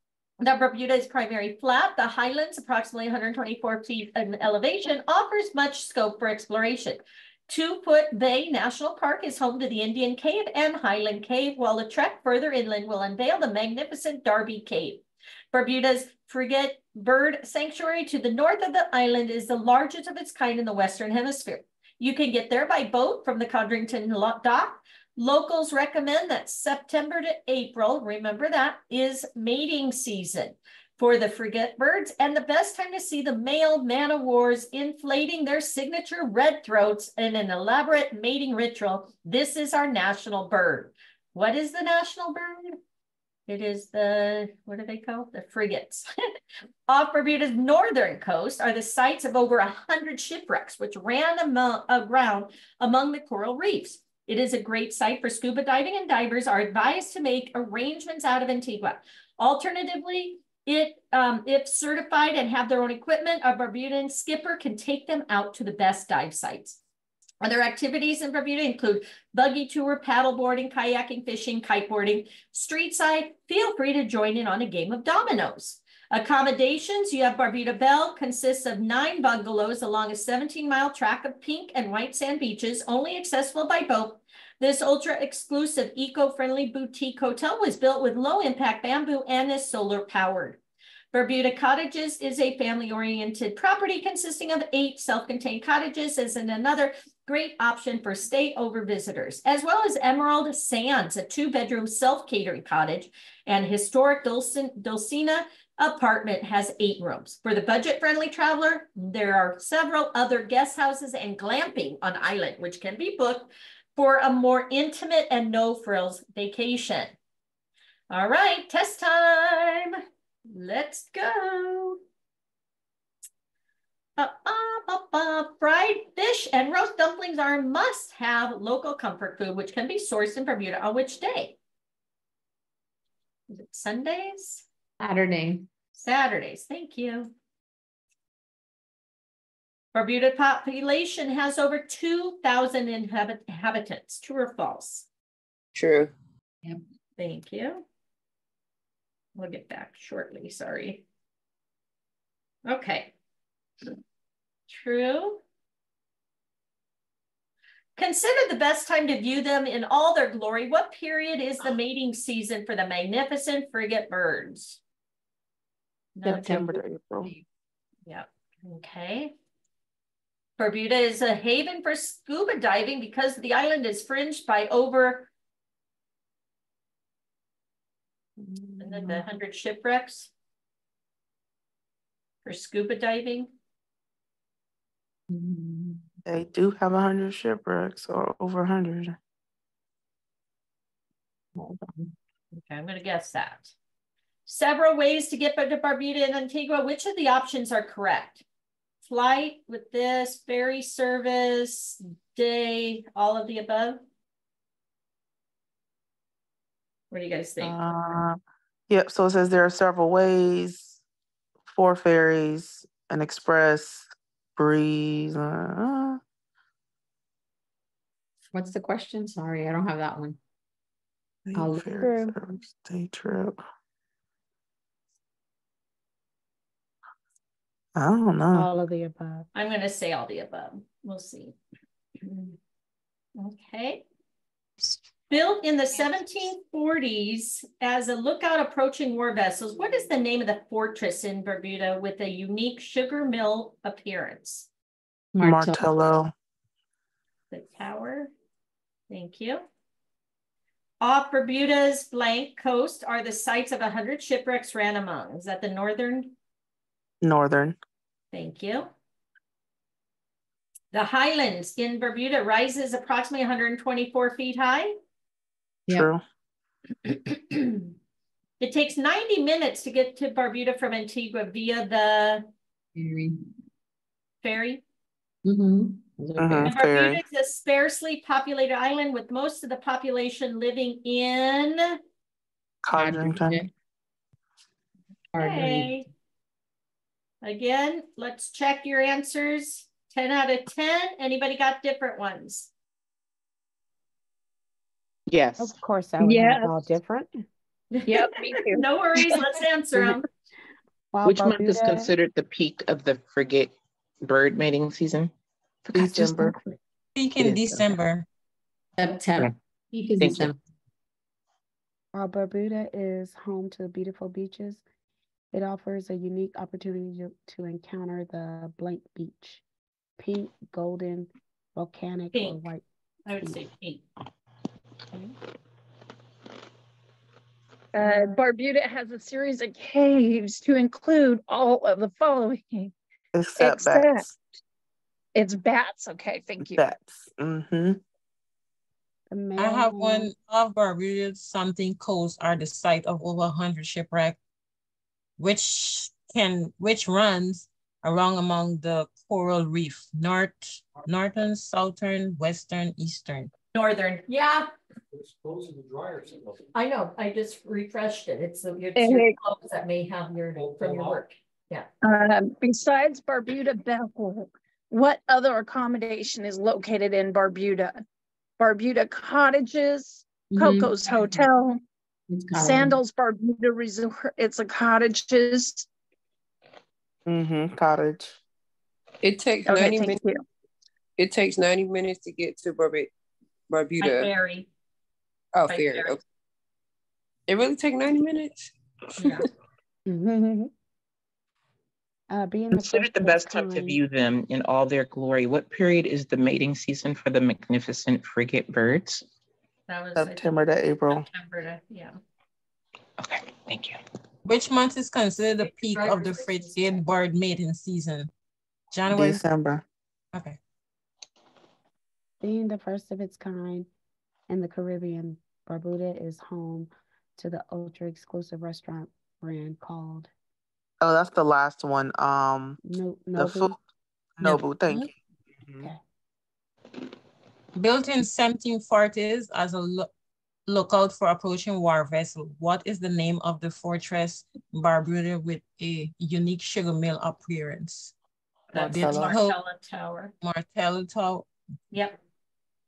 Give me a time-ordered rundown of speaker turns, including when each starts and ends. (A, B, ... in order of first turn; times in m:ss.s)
0:00.4-0:42.8 A
0:43.5-0:46.1 A
0:46.9-1:06.8 A
1:07.4-1:30.6 A
1:31.1-1:57.1 A
1:58.1-1:59.9 A
2:00.5-2:02.0 A
2:04.2-2:11.6 A
2:13.5-2:14.6 A
2:15.0-2:15.7 B
2:16.0-2:17.3 A
2:19.9-2:25.0 A
2:25.7-2:26.1 C
2:27.2-2:27.8 A
2:29.3-2:31.0 A
2:32.7-2:33.1 A
2:34.7-2:35.4 A
2:38.0-2:44.8 A
2:46.2-2:46.6 A
2:46.2-2:47.3 D
2:48.0-2:49.3 A
2:50.6-2:55.3 A
2:58.4-2:59.2 D
2:58.8-3:00.3 A
3:02.4-3:03.5 A
3:05.3-3:05.9 B
3:06.2-3:09.2 D
3:11.6-3:11.8 D
3:12.5-3:13.7 A
3:14.4-3:18.4 A
3:19.0-3:24.0 A
3:27.1-3:27.8 A
3:27.6-3:31.0 D
3:31.7-3:36.2 D
3:38.5-3:40.4 B
3:41.4-3:43.6 D
3:41.6-3:42.3 B
3:47.9-3:48.7 D
3:48.5-3:49.4 E
3:49.5-3:51.6 A
3:52.2-3:52.6 A
3:53.3-3:54.0 A
3:55.3-4:04.7 A
4:05.4-4:05.8 B
4:05.4-4:06.3 D
4:07.5-4:08.3 A
4:09.1-4:09.6 A
4:11.0-4:16.3 A
4:17.2-4:17.8 D
4:18.3-4:18.9 A
4:20.9-4:24.9 A
4:25.9-4:26.2 D
4:27.1-4:27.9 A
4:28.6-4:32.5 A
4:33.0-4:33.5 B
4:34.4-4:34.8 A
4:35.4-4:36.7 B
4:36.4-4:37.2 D
4:36.6-4:42.0 A
4:42.8-4:43.6 D
4:43.0-4:43.7 B
4:45.3-4:45.9 B
4:45.4-4:46.1 A
4:47.4-4:52.7 A
4:55.3-4:55.7 F
4:55.6-4:57.3 E
4:56.2-4:56.7 G
4:58.1-4:59.4 G
4:58.7-5:00.2 A
5:01.1-5:02.1 E
5:01.2-5:05.3 F
5:05.8-5:06.6 F
5:05.9-5:06.5 D
5:07.2-5:08.2 H
5:07.4-5:07.8 F
5:09.0-5:10.6 B
5:10.2-5:10.5 F
5:12.1-5:14.8 E
5:15.5-5:19.6 E
5:20.2-5:23.6 E
5:22.3-5:22.7 A
5:23.2-5:24.0 A
5:27.9-5:32.9 G
5:28.0-5:28.3 A
5:33.3-5:34.2 D
5:33.6-5:34.2 G
5:35.3-5:36.8 G
5:36.6-5:38.0 D
5:39.3-5:40.3 E
5:39.6-5:44.4 H
5:45.4-5:53.5 H
5:53.7-5:54.7 A
5:56.7-6:01.9 A
5:59.0-5:59.3 G
6:02.0-6:07.9 G
6:08.6-6:11.8 G
6:10.5-6:11.4 B
6:12.3-6:13.0 B
6:12.5-6:15.9 G
6:17.3-6:18.4 D
6:19.2-6:20.2 C
6:19.7-6:20.4 G
6:21.2-6:23.1 C
6:23.7-6:24.3 C
6:24.0-6:24.7 A
6:25.5-6:26.2 C
6:25.7-6:26.2 A
6:27.5-6:28.7 C
6:29.2-6:29.4 A
6:30.1-6:30.7 E
6:32.3-6:34.0 E
6:32.7-6:39.2 F
6:39.9-6:40.5 A
6:40.1-6:41.2 D
6:41.1-6:42.2 A
6:43.2-6:44.0 F
6:44.4-6:48.3 H
6:45.7-6:47.0 A
6:48.9-6:49.4 H
6:49.1-6:49.8 D
6:50.3-6:50.6 H
6:52.4-6:53.9 E
6:54.5-7:00.3 E
7:01.0-7:02.8 D
7:02.8-7:03.7 E
7:03.4-7:03.8 D
7:04.4-7:05.1 D
7:04.4-7:05.0 H
7:05.6-7:05.9 D
7:07.8-7:10.1 H
7:10.7-7:18.1 H
7:18.7-7:20.3 A
7:18.8-7:19.3 D
7:18.9-7:19.6 H
7:20.4-7:21.5 H